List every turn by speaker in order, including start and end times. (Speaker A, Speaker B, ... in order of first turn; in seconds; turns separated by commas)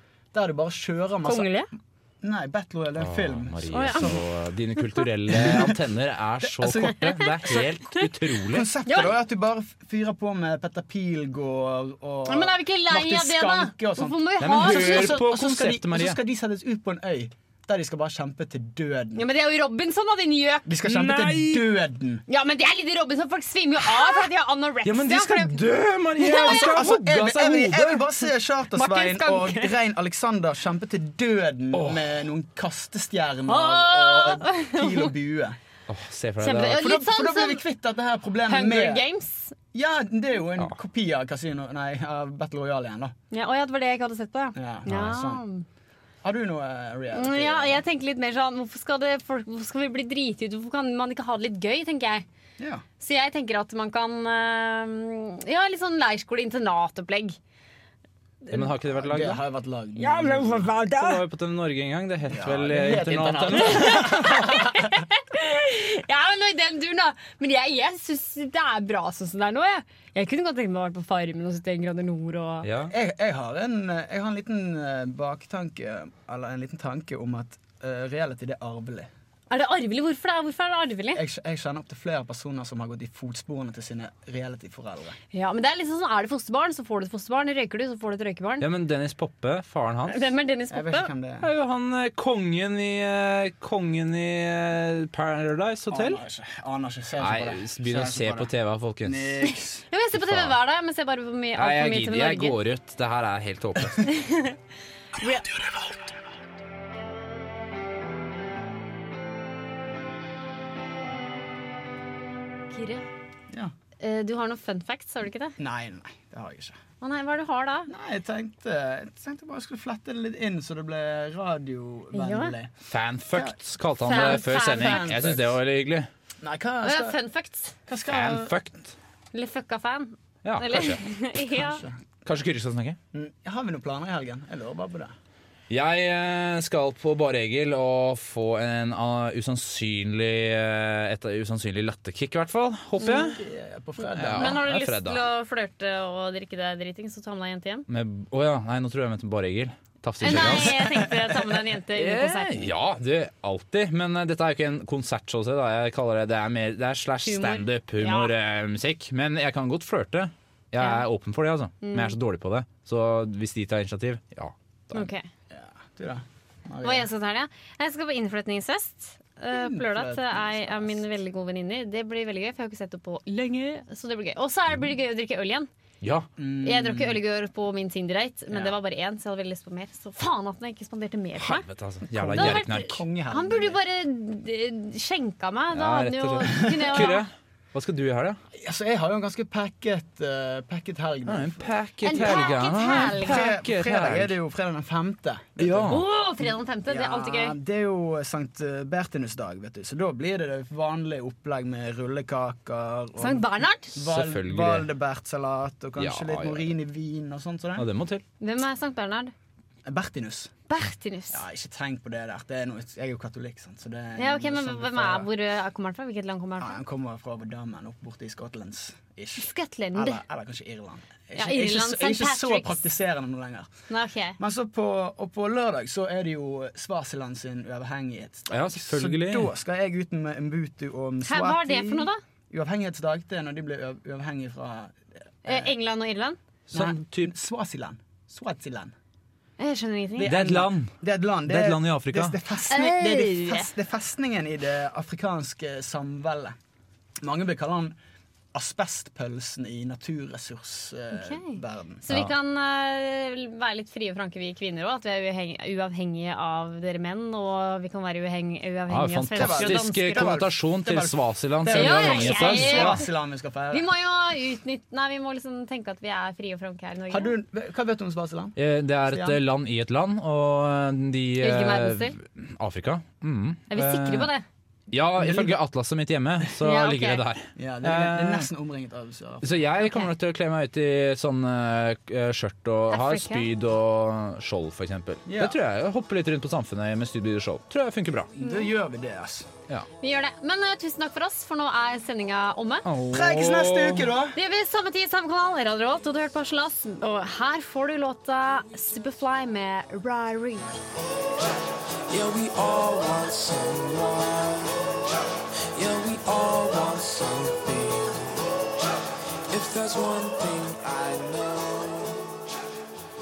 Speaker A: 0.3-1.6, Speaker B: 1.2-1.7, Speaker A: 2.2-4.2, Speaker C: 3.0-8.7, Speaker B: 3.7-4.2, Speaker A: 5.3-5.8, Speaker A: 6.4-7.6, Speaker B: 7.2-7.5, Speaker A: 8.4-19.2, Speaker B: 8.8-9.1, Speaker B: 12.2-15.2, Speaker C: 14.4-16.2, Speaker B: 19.1-20.7, Speaker A: 20.7-22.2, Speaker C: 20.8-21.6, Speaker B: 22.3-25.6, Speaker C: 24.8-28.1, Speaker B: 26.2-26.9, Speaker A: 26.4-35.6, Speaker B: 28.7-29.7, Speaker C: 31.7-32.1, Speaker B: 33.5-35.1, Speaker C: 35.9-36.8, Speaker B: 36.4-37.6, Speaker A: 36.7-39.0, Speaker B: 38.5-39.5, Speaker A: 39.7-43.1, Speaker B: 43.3-45.6, Speaker A: 44.5-45.4, Speaker C: 44.9-45.2, Speaker A: 46.2-47.8, Speaker B: 47.1-52.2, Speaker A: 52.6-52.8, Speaker B: 53.0-57.4, Speaker C: 58.5-59.4, Speaker A: 58.9-60.7, Speaker B: 60.0-61.2, Speaker C: 60.1-64.6, Speaker A: 62.3-64.8, Speaker B: 63.6-72.7, Speaker C: 72.6-72.9, Speaker A: 72.9-79.1, Speaker B: 79.5-81.2, Speaker A: 81.1-85.2, Speaker B: 85.3-88.7, Speaker C: 88.6-90.3, Speaker B: 90.1-91.1, Speaker A: 90.7-91.5, Speaker C: 91.4-96.2, Speaker A: 95.9-98.5, Speaker C: 97.2-99.3, Speaker A: 99.0-99.8, Speaker B: 99.4-102.5, Speaker C: 100.1-100.5, Speaker C: 101.5-104.1, Speaker B: 104.0-104.5, Speaker B: 105.2-105.5, Speaker B: 112.7-113.1, Speaker B: 114.0-115.5, Speaker A: 115.6-116.8, Speaker B: 117.0-117.9, Speaker A: 117.9-122.7, Speaker B: 122.1-122.5, Speaker C: 122.9-126.1, Speaker B: 124.0-125.1, Speaker A: 124.1-125.6, Speaker A: 126.4-127.2, Speaker B: 126.8-127.8, Speaker A: 127.9-128.5, Speaker C: 128.1-128.9, Speaker B: 129.3-131.8, Speaker C: 130.4-131.0, Speaker A: 131.5-132.0, Speaker C: 132.2-133.0, Speaker A: 133.1-135.1, Speaker C: 135.7-143.4, Speaker B: 143.0-143.3, Speaker A: 143.1-144.6, Speaker C: 144.1-145.2, Speaker B: 144.4-147.8, Speaker C: 147.9-151.2, Speaker B: 150.2-152.7, Speaker A: 150.3-150.8, Speaker C: 151.9-165.1, Speaker B: 157.2-158.3, Speaker B: 160.8-161.0, Speaker B: 161.8-162.1, Speaker B: 164.9-165.3, Speaker A: 165.5-167.1, Speaker B: 166.8-175.7, Speaker A: 169.5-171.1, Speaker C: 176.0-176.3, Speaker A: 176.4-177.2, Speaker B: 176.6-181.7, Speaker C: 181.4-183.0, Speaker A: 182.2-183.8, Speaker B: 182.3-187.3, Speaker C: 185.7-188.4, Speaker A: 186.6-187.1, Speaker A: 188.5-207.9, Speaker C: 191.3-194.3, Speaker B: 192.0-193.4, Speaker C: 195.6-196.0, Speaker B: 195.9-197.6, Speaker B: 203.2-204.0, Speaker C: 204.0-204.9, Speaker C: 206.0-206.7, Speaker C: 207.8-208.2, Speaker B: 208.4-209.3, Speaker A: 209.8-210.5, Speaker B: 210.7-211.4, Speaker A: 211.3-215.3, Speaker B: 214.2-216.8, Speaker A: 216.6-223.7, Speaker B: 219.3-220.2, Speaker B: 221.3-222.9, Speaker B: 223.9-224.4, Speaker A: 224.4-235.7, Speaker C: 228.5-229.5, Speaker B: 231.2-232.2, Speaker B: 235.4-236.4, Speaker C: 236.7-237.3, Speaker A: 236.7-238.9, Speaker B: 239.6-240.3, Speaker A: 240.2-246.6, Speaker C: 240.2-240.9, Speaker C: 241.5-242.4, Speaker B: 242.7-243.7, Speaker A: 247.2-247.9, Speaker A: 248.5-252.0, Speaker B: 251.1-260.3, Speaker C: 258.9-263.0, Speaker A: 259.4-263.9, Speaker B: 261.7-263.1, Speaker B: 263.7-267.3, Speaker A: 267.1-268.6, Speaker C: 268.6-274.3, Speaker B: 271.4-272.1, Speaker B: 273.7-274.4, Speaker C: 274.9-278.5, Speaker A: 275.2-275.6, Speaker B: 276.6-277.2, Speaker A: 277.6-279.5, Speaker C: 279.4-288.3, Speaker B: 279.8-280.1, Speaker B: 282.9-283.5, Speaker A: 285.3-285.6, Speaker A: 288.4-289.5, Speaker B: 288.4-288.7, Speaker B: 290.0-292.9, Speaker C: 292.8-294.1, Speaker A: 293.1-294.4, Speaker B: 294.3-300.7, Speaker D: 302.1-305.2, Speaker D: 305.7-308.9, Speaker D: 309.5-312.5